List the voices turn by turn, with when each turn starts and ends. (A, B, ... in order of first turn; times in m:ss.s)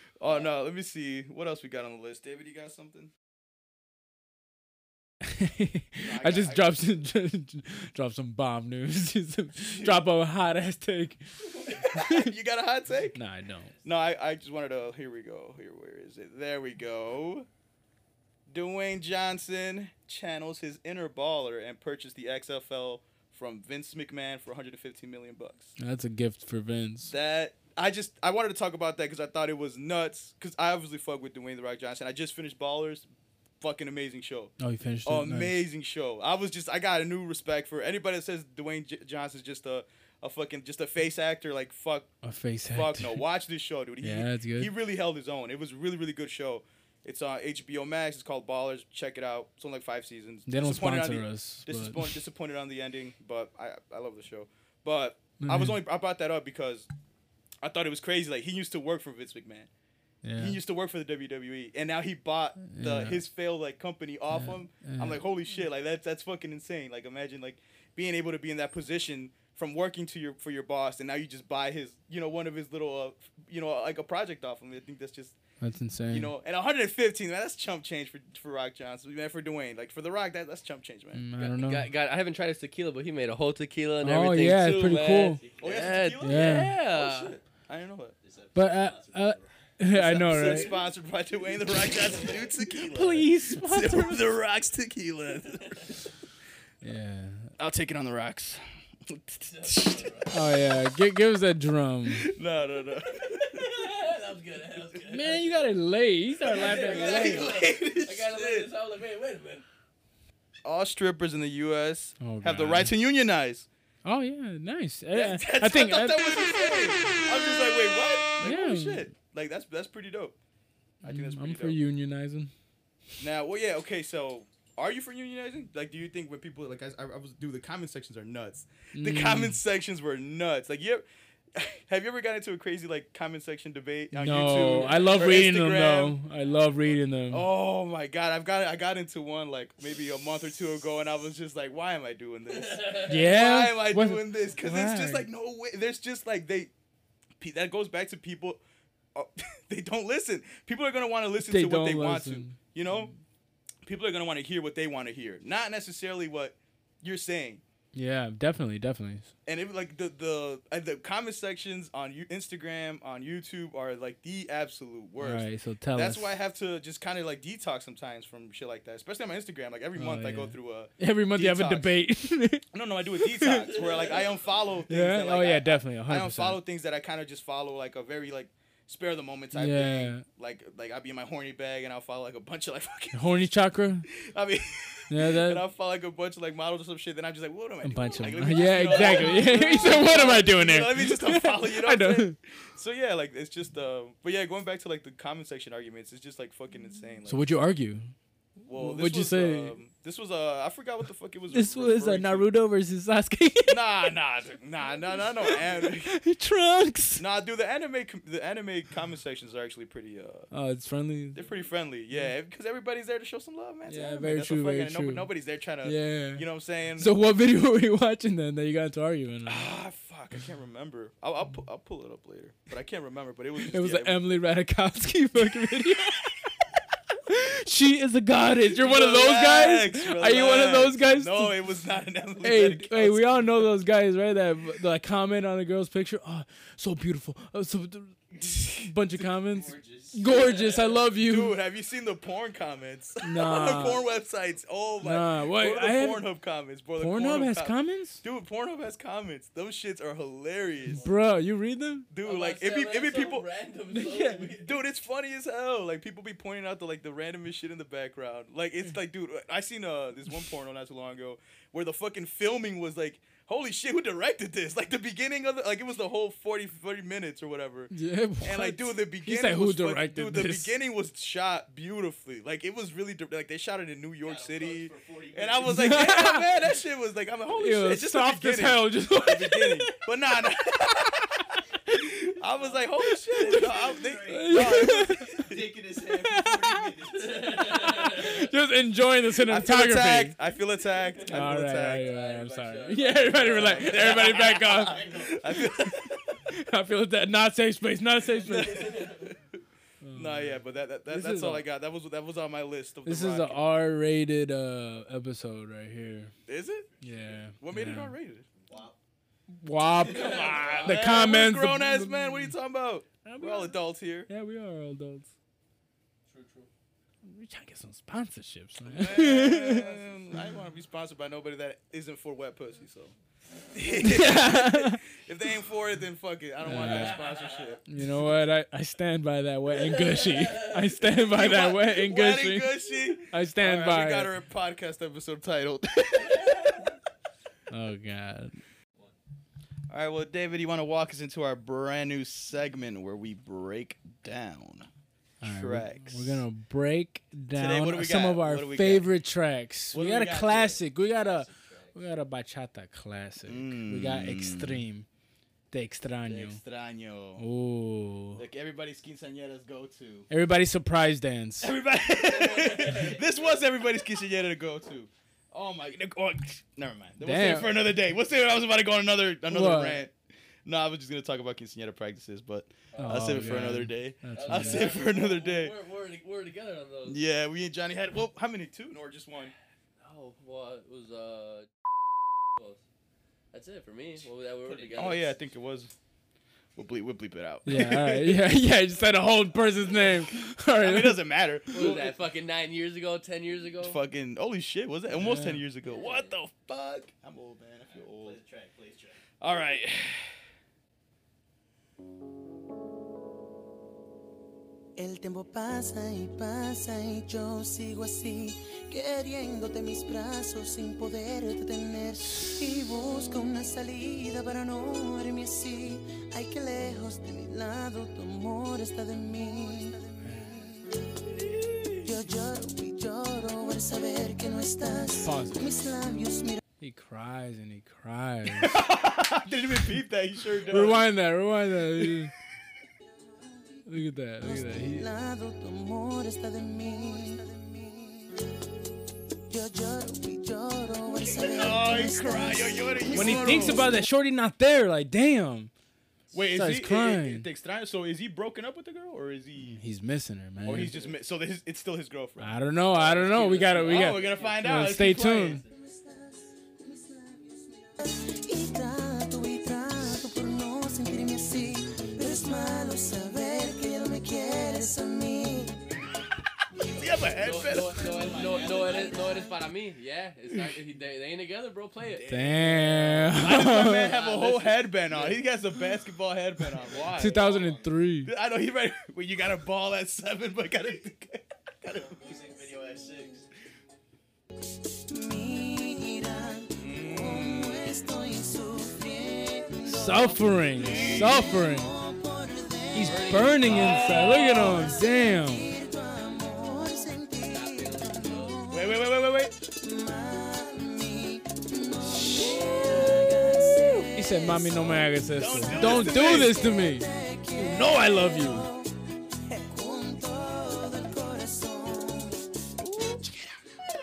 0:00.2-0:03.1 A
0:05.3-0:12.3 B
0:06.0-0:06.9 A
0:09.6-0:10.0 A
0:11.6-0:13.2 A
0:13.2-0:13.7 B
0:13.8-0:17.5 A
0:18.5-0:25.7 A
0:25.8-0:27.1 B
0:27.1-0:33.1 A
0:33.6-0:42.1 A
0:34.6-0:35.6 B
0:42.2-0:43.2 B
0:42.7-0:56.9 A
0:44.0-0:44.7 B
0:50.5-0:52.2 B
0:55.4-0:55.8 B
0:57.6-0:59.7 A
1:00.2-1:00.6 B
1:00.4-1:15.4 A
1:02.6-1:03.2 B
1:04.3-1:05.2 B
1:15.6-1:16.3 B
1:16.1-1:21.2 A
1:21.1-1:21.9 B
1:21.4-1:27.4 C
1:24.0-1:25.4 B
1:24.8-1:26.1 D
1:25.6-1:28.2 A
1:26.2-1:26.7 B
1:28.2-1:29.5 D
1:28.5-1:30.7 B
1:29.9-1:35.8 A
1:30.3-1:30.8 D
1:32.8-1:34.3 B
1:35.5-1:36.0 C
1:36.8-1:37.5 B
1:37.6-1:40.3 A
1:39.5-1:40.3 C
1:40.3-1:42.3 B
1:42.1-1:43.8 A
1:43.2-1:45.5 C
1:45.1-1:47.5 B
1:46.4-1:49.6 C
1:46.5-1:48.7 A
1:50.6-1:53.7 A
1:52.2-1:52.9 B
1:54.0-1:56.4 B
1:55.1-2:00.4 A
1:58.4-1:59.1 B
2:01.0-2:02.5 B
2:01.0-2:01.8 A
2:03.2-2:16.2 A
2:08.9-2:09.6 B
2:14.1-2:17.5 B
2:17.3-2:26.7 A
2:22.6-2:23.1 C
2:23.1-2:25.3 B
2:27.4-2:28.6 A
2:29.2-2:33.1 A
2:31.4-2:33.1 B
2:33.8-2:37.6 A
2:37.9-2:39.3 B
2:39.5-2:52.0 A
2:45.2-2:46.4 B
2:50.0-2:52.7 B
2:52.7-3:03.4 A
2:53.2-2:53.7 B
2:53.8-2:54.2 C
2:54.9-2:56.6 B
2:59.6-3:00.2 B
3:03.1-3:04.1 B
3:04.1-3:17.5 A
3:05.1-3:05.6 B
3:07.8-3:12.4 B
3:17.3-3:18.1 B
3:18.6-3:22.5 A
3:18.7-3:19.8 B
3:21.5-3:23.8 B
3:23.7-3:26.2 A
3:25.4-3:27.2 B
3:27.2-3:30.5 A
3:30.5-3:31.4 B
3:31.4-3:37.1 A
3:33.9-3:35.3 B
3:35.8-3:36.5 B
3:37.0-3:39.7 B
3:39.5-3:44.2 A
3:43.6-3:46.4 B
3:47.3-3:51.6 B
3:48.7-3:53.7 A
3:52.4-4:01.6 B
3:59.5-4:01.0 D
4:01.2-4:11.0 A
4:03.2-4:04.0 B
4:05.0-4:06.3 B
4:07.0-4:08.2 B
4:10.9-4:12.1 B
4:12.1-4:13.5 A
4:12.2-4:14.8 C
4:13.9-4:14.5 B
4:14.6-4:45.6 A
4:27.9-4:30.7 B
4:34.2-4:36.1 D
4:35.6-4:36.5 B
4:37.6-4:40.0 B
4:42.5-4:48.3 D
4:44.3-4:45.4 B
4:46.0-4:46.9 B
4:47.2-4:48.4 C
4:48.0-4:50.4 B
4:49.5-4:52.1 A
4:51.3-4:55.0 B
4:52.0-4:54.9 C
4:53.6-4:55.7 D
4:53.9-4:56.2 A
4:56.5-4:58.9 B
4:58.4-4:59.4 A
4:58.8-4:59.2 C
5:00.0-5:01.7 B
5:00.1-5:03.6 A
5:03.0-5:06.3 B
5:06.5-5:06.9 A
5:06.8-5:07.5 D
5:07.0-5:08.2 B
5:07.6-5:08.5 A
5:08.5-5:09.0 D
5:09.5-5:12.6 B
5:10.0-5:10.6 D
5:10.1-5:11.0 C
5:10.1-5:14.3 A
5:13.2-5:15.3 B
5:16.3-5:16.7 C
5:17.2-5:19.9 B
5:18.9-5:23.1 A
5:23.7-5:27.8 A
5:24.0-5:25.0 B
5:26.6-5:27.2 B
5:26.8-5:27.6 C
5:27.9-5:34.3 B
5:29.9-5:31.0 C
5:31.1-5:36.9 A
5:36.4-5:36.7 C
5:37.7-5:38.6 B
5:39.9-5:44.9 A
5:45.4-5:46.4 A
5:45.4-5:55.1 B
5:47.5-5:49.1 A
5:49.9-5:50.8 A
5:51.0-5:52.0 D
5:53.5-5:54.8 A
5:55.7-5:56.6 B
5:56.3-5:57.4 A
5:57.4-5:58.4 B
5:58.4-6:00.3 A
6:00.3-6:01.7 B
6:01.6-6:10.1 A
6:02.2-6:03.2 C
6:02.8-6:03.2 D
6:07.2-6:07.8 B
6:09.5-6:10.0 B
6:10.7-6:15.8 A
6:12.9-6:13.5 C
6:13.0-6:15.0 B
6:14.3-6:17.2 C
6:17.0-6:19.5 A
6:20.0-6:21.7 C
6:22.6-6:22.8 C
6:23.5-6:25.3 C
6:24.6-6:25.4 D
6:25.0-6:25.9 A
6:26.8-6:28.4 A
6:27.7-6:31.3 B
6:30.7-6:32.2 A
6:31.7-6:34.0 C
6:33.8-6:38.4 A
6:35.1-6:35.6 B
6:35.9-6:36.3 C
6:37.9-6:39.2 D
6:39.4-6:40.4 A
6:45.0-7:00.4 E
7:00.2-7:00.7 B
7:01.5-7:02.0 A
7:02.0-7:06.6 E
7:05.2-7:05.8 B
7:06.8-7:08.8 B
7:08.5-7:11.1 A
7:10.7-7:12.3 B
7:13.9-7:15.1 B
7:14.4-7:18.4 E
7:19.5-7:24.0 E
7:21.3-7:23.9 A
7:23.1-7:25.7 B
7:26.3-7:29.8 A
7:26.5-7:27.5 B
7:29.6-7:31.0 B
7:30.6-7:35.6 A
7:30.8-7:31.1 D
7:32.4-7:35.6 B
7:33.2-7:34.4 C
7:34.0-7:34.6 D
7:35.7-7:45.7 E
7:46.8-7:48.0 A
7:47.4-7:52.3 C
7:47.6-7:49.5 D
7:52.2-7:57.5 A
7:52.3-7:54.1 B
7:54.0-7:55.4 C
7:54.1-7:55.4 D
7:56.8-7:58.1 D
7:57.1-7:58.3 B
7:58.2-8:02.3 A
8:01.9-8:03.5 D
8:05.1-8:13.2 E
8:06.8-8:07.9 A
8:09.8-8:11.9 B
8:10.2-8:10.7 C
8:10.8-8:11.6 A
8:12.9-8:15.7 B
8:13.0-8:14.4 C
8:13.6-8:14.9 A
8:14.0-8:19.0 E
8:17.5-8:18.6 C
8:18.7-8:19.5 A
8:19.8-8:28.9 E
8:22.0-8:22.6 B
8:22.4-8:24.1 A
8:24.1-8:28.7 B
8:25.3-8:26.6 A
8:29.7-8:32.4 E
8:32.8-8:33.3 A